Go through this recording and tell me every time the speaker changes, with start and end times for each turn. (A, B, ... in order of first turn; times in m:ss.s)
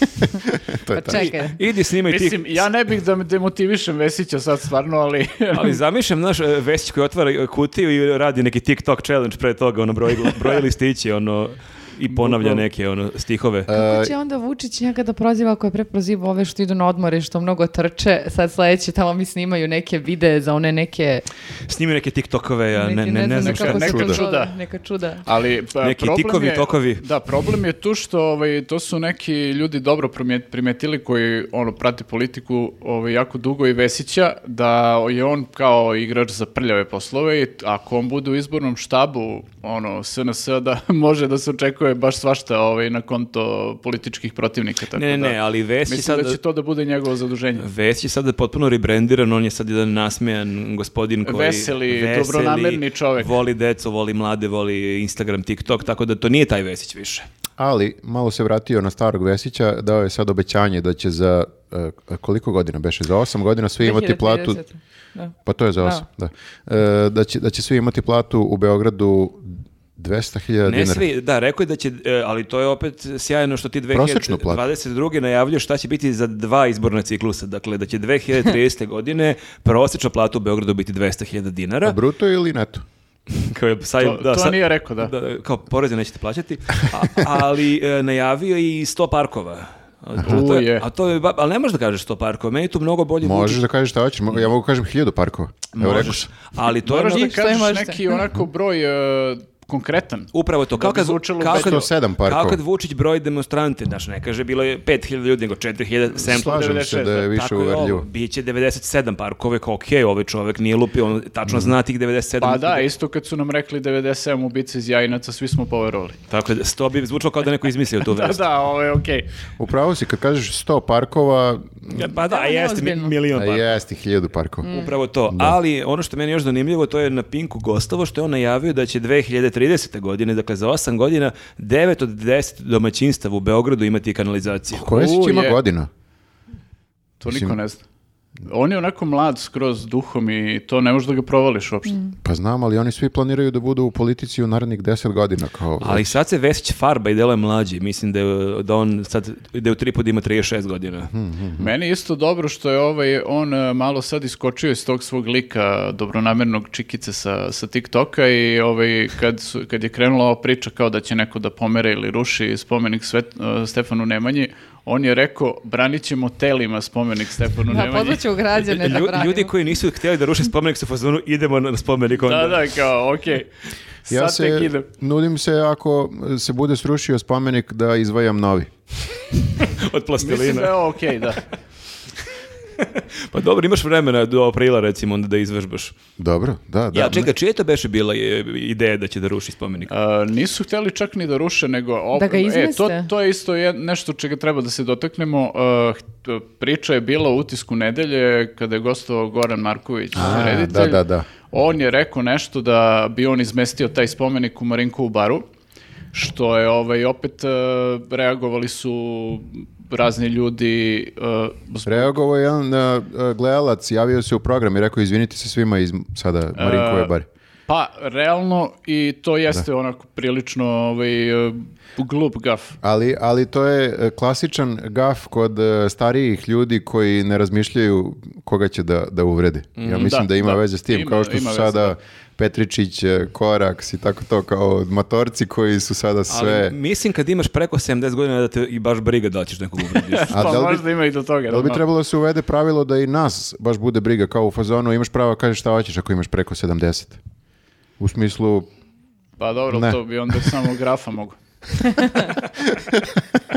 0:00.7-0:01.2 A
0:00.9-0:01.6 B
0:01.1-0:02.6 C
0:02.1-0:05.8 D
0:05.5-0:13.7 C
0:12.1-0:12.6 D
0:13.7-0:14.1 A
0:13.7-0:21.2 B
0:21.7-0:24.0 C
0:22.7-0:25.2 B
0:23.4-0:24.5 D
0:23.8-0:24.2 A
0:25.2-0:47.6 D
0:25.8-0:27.0 C
0:44.9-0:46.4 C
0:47.6-0:57.2 C
0:51.2-0:53.3 D
0:57.6-1:04.6 A
1:03.8-1:06.0 B
1:05.4-1:11.0 A
1:10.6-1:22.0 C
1:13.9-1:14.6 A
1:21.8-1:22.8 A
1:23.3-1:33.6 C
1:24.0-1:25.1 D
1:30.2-1:30.8 D
1:33.2-1:36.3 A
1:35.7-1:37.4 C
1:36.8-1:41.8 D
1:37.0-1:38.2 B
1:40.3-1:52.9 C
1:41.5-1:42.6 A
1:46.2-1:48.1 A
1:46.3-1:47.3 D
1:51.5-1:51.7 A
1:52.4-1:56.2 D
1:56.3-1:58.4 C
1:58.0-1:59.3 D
1:59.6-2:02.1 A
2:01.9-2:03.8 C
2:02.2-2:03.1 B
2:03.3-2:04.6 A
2:04.6-2:04.9 B
2:04.6-2:14.9 C
2:05.3-2:05.6 A
2:14.7-2:15.9 A
2:14.9-2:15.6 D
2:17.2-2:17.8 D
2:17.3-2:17.6 A
2:18.4-2:22.1 D
2:22.2-2:26.2 A
2:25.8-2:31.1 C
2:31.1-2:31.7 A
2:31.6-2:48.2 D
2:47.7-2:49.5 B
2:48.6-2:52.7 C
2:52.2-2:53.5 D
2:54.1-2:54.9 D
2:54.1-2:58.7 A
2:59.6-3:00.8 C
3:00.2-3:01.4 D
3:02.8-3:05.9 C
3:06.2-3:07.3 A
3:06.9-3:09.9 C
3:09.9-3:25.4 D
3:12.1-3:13.1 B
3:20.1-3:21.3 A
3:26.1-3:32.2 D
3:31.8-3:37.3 A
3:36.6-3:37.1 D
3:37.7-3:42.8 D
3:42.8-3:56.7 A
3:49.8-3:50.1 C
3:49.9-3:51.9 D
3:56.3-4:00.7 C
3:59.9-4:01.8 D
4:00.3-4:00.8 A
4:01.5-4:07.2 A
4:08.0-4:08.7 A
4:09.4-4:11.4 D
4:09.7-4:10.0 A
4:11.8-4:12.3 B
4:12.8-4:13.2 A